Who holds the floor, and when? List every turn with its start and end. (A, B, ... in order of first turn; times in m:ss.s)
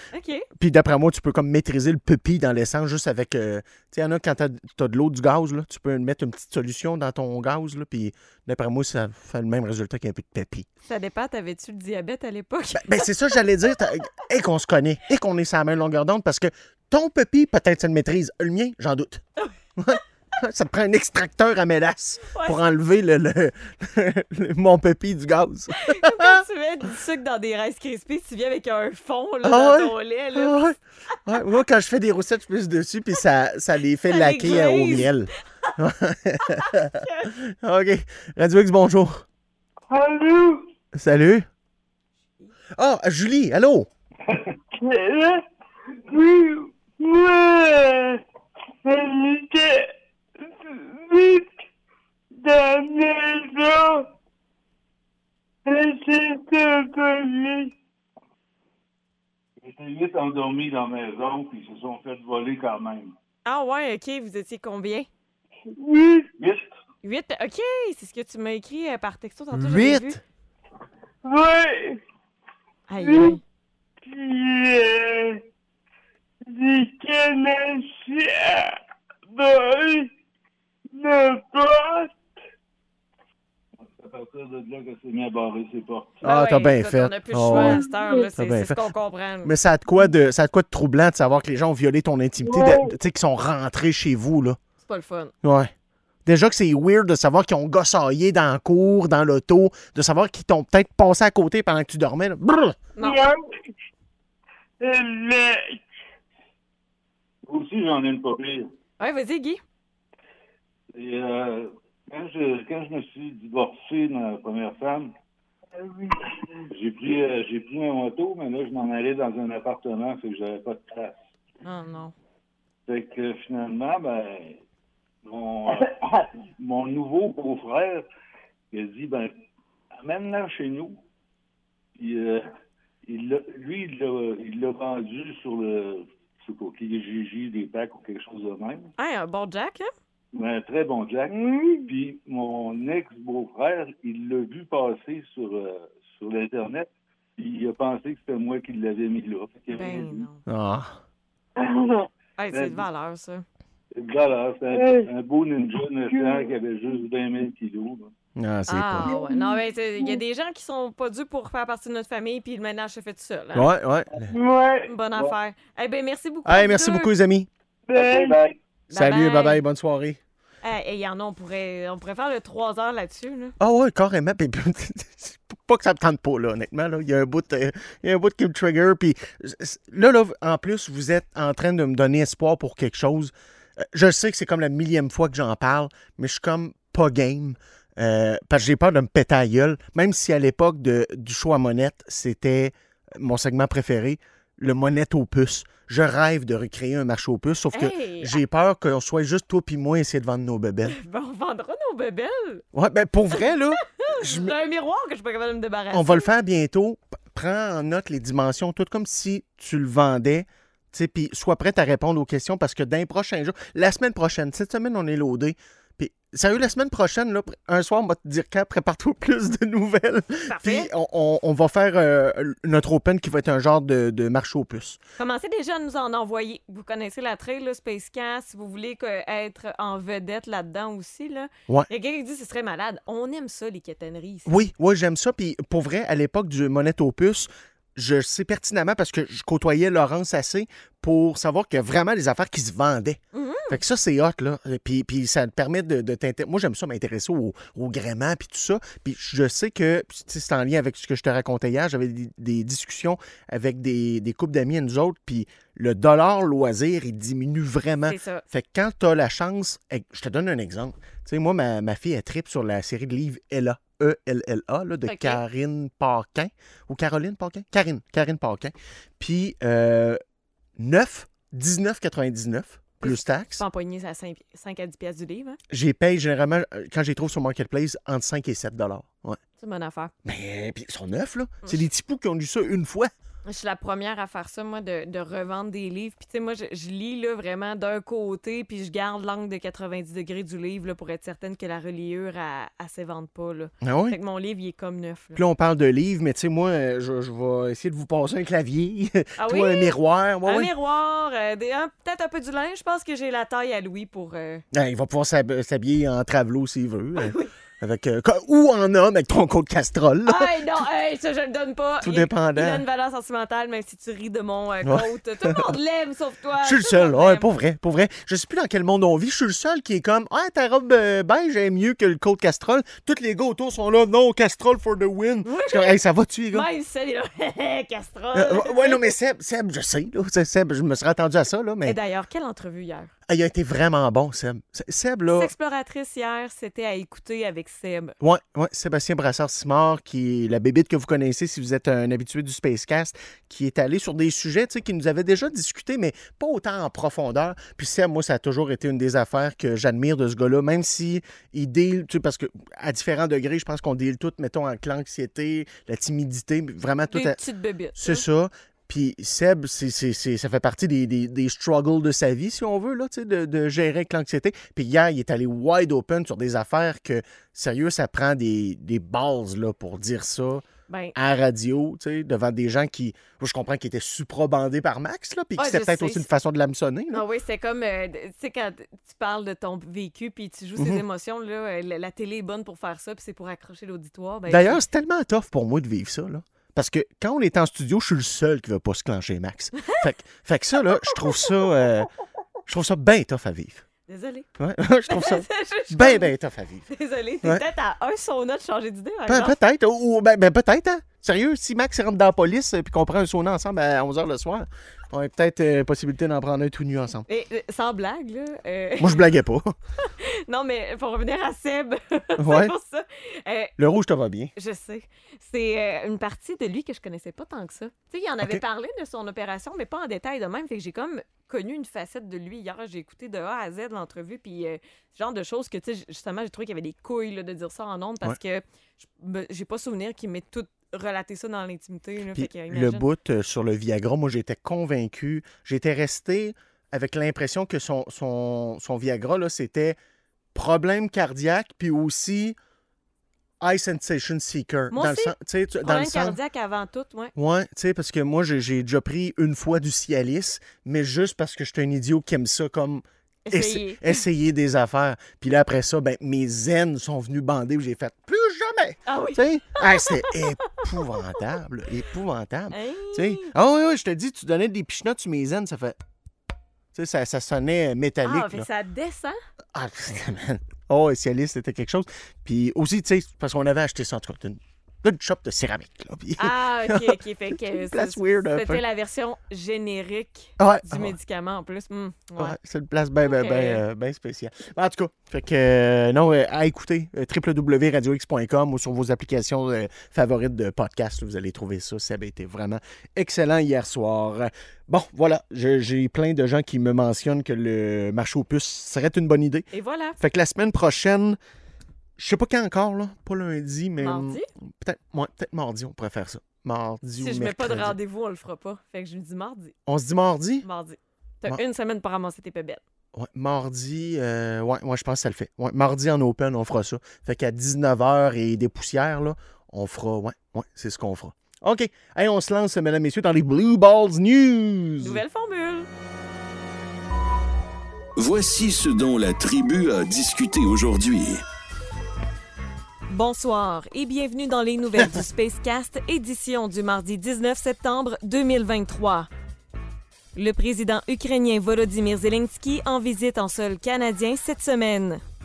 0:00.1-0:00.5 A
0:00.6-0:10.7 B
0:10.9-0:13.1 A
0:12.7-0:19.2 B
0:19.8-0:26.4 B
0:22.3-0:22.6 A
0:25.8-0:30.5 A
0:29.4-0:39.2 B
0:34.1-0:35.1 A
0:36.5-0:37.3 A
0:39.9-0:40.7 C
0:40.9-0:41.5 B
0:42.8-0:43.9 B
0:44.8-0:45.4 C
0:46.1-0:48.2 C
0:48.8-0:49.9 C
0:50.4-0:51.5 C
0:52.4-0:54.1 C
0:55.7-0:57.7 C
0:59.6-1:03.1 D
1:03.4-1:05.1 A
1:05.8-1:06.3 C
1:06.4-1:06.6 D
1:07.0-1:10.2 A
1:09.5-1:10.2 B
1:11.2-1:12.0 C
1:12.9-1:13.4 A
1:13.0-1:13.4 C
1:14.0-1:15.4 C
1:16.5-1:18.8 C
1:19.3-1:20.1 C
1:20.9-1:22.1 C
1:23.8-1:26.2 D
1:26.2-1:27.8 B
1:26.2-1:29.5 A
1:27.5-1:28.3 C
1:28.4-1:28.8 B
1:29.4-1:34.6 B
1:32.4-1:32.9 C
1:34.9-1:35.3 A
1:35.4-1:35.7 B
1:36.2-1:42.8 B
1:43.0-1:43.4 C
1:44.8-1:45.8 C
1:47.5-1:48.7 D
1:49.0-1:49.6 A
1:50.9-1:55.1 D
1:55.8-1:56.2 C
1:56.7-2:01.2 D
2:01.6-2:02.1 A
2:02.9-2:04.6 D
2:05.2-2:08.1 D
2:08.7-2:09.3 D
2:09.9-2:11.0 D
2:12.0-2:12.4 D
2:13.1-2:18.9 D
2:19.0-2:19.9 A
2:20.4-2:21.3 D
2:21.3-2:21.9 C
2:21.9-2:30.2 D
2:29.7-2:30.4 A
2:30.5-2:31.0 B
2:31.6-2:32.0 C
2:32.4-2:33.4 A
2:32.5-2:32.8 D
2:33.9-2:38.1 D
2:34.7-2:35.1 C
2:36.1-2:36.5 C
2:38.4-2:39.2 B
2:38.7-2:43.7 A
2:39.0-2:40.2 C
2:43.5-2:44.3 B
2:44.3-2:45.0 C
2:44.9-2:47.1 A
2:46.5-2:47.5 B
2:47.9-2:48.4 C
2:48.0-2:48.5 D
2:48.9-2:50.2 B
2:48.9-2:49.6 A
2:50.6-2:53.5 A
2:53.6-3:21.0 B
3:17.7-3:18.4 A
3:20.9-3:22.6 A
3:22.7-3:24.6 B
3:24.0-3:26.3 A
3:25.9-3:45.0 B
3:40.5-3:40.9 A
3:45.2-3:54.6 A
3:54.5-4:30.2 B
4:03.3-4:03.8 A
4:18.1-4:18.4 A
4:25.0-4:25.4 A
4:30.8-4:33.6 B
4:33.0-4:35.6 A
4:35.7-4:39.4 B
4:39.6-4:40.1 A
4:40.2-4:43.1 B
4:43.4-4:55.4 A
4:53.8-4:54.2 B
4:55.4-5:00.7 B
4:59.4-4:59.9 A
5:00.4-5:04.6 A
5:04.7-5:10.5 B
5:07.2-5:07.5 A
5:10.3-5:17.5 A
5:12.0-5:12.8 B
5:14.8-5:15.7 B
5:16.6-5:26.7 B
5:25.4-5:26.0 A
5:26.5-5:29.0 A
5:28.3-5:32.0 B
5:31.8-5:33.1 A
5:33.3-5:35.5 B
5:35.3-5:38.2 A
5:38.2-5:57.4 B
5:57.1-5:58.2 A
5:58.0-6:17.2 B
6:10.9-6:11.2 A
6:15.6-6:16.3 A
6:17.1-6:24.8 A
6:20.8-6:21.0 B
6:24.5-6:32.1 B
6:30.9-6:31.4 A
6:32.7-6:33.8 B
6:34.1-6:34.5 A
6:34.6-6:36.9 B
6:35.1-6:36.3 A
6:36.9-6:39.6 A
6:39.3-6:47.3 B
6:47.3-6:49.2 A
6:49.0-6:49.7 B
6:50.0-6:53.7 A
6:52.4-6:52.7 B
6:53.8-6:54.5 B
6:54.6-7:13.0 A
7:12.3-7:20.0 B
7:20.5-7:22.6 B
7:23.6-7:26.4 B
7:24.9-7:27.3 A
7:27.4-7:46.0 B
7:33.5-7:34.2 A
7:39.1-7:40.8 A
7:42.7-7:43.5 A
7:46.9-7:48.7 B
7:48.2-7:49.4 A
7:49.7-7:58.8 B
7:56.4-8:02.6 A
8:00.6-8:01.2 B
8:02.4-8:19.7 B
8:03.2-8:03.8 A
8:19.7-8:20.2 A
8:20.2-8:21.4 B
8:22.2-8:28.0 B
8:24.0-8:24.5 A
8:27.2-8:29.8 A
8:29.9-8:30.7 B
8:30.6-8:32.8 A
8:33.1-8:45.2 B
8:45.0-8:45.9 A
8:48.2-8:51.4 E
8:53.1-8:59.3 A
9:00.4-9:05.2 A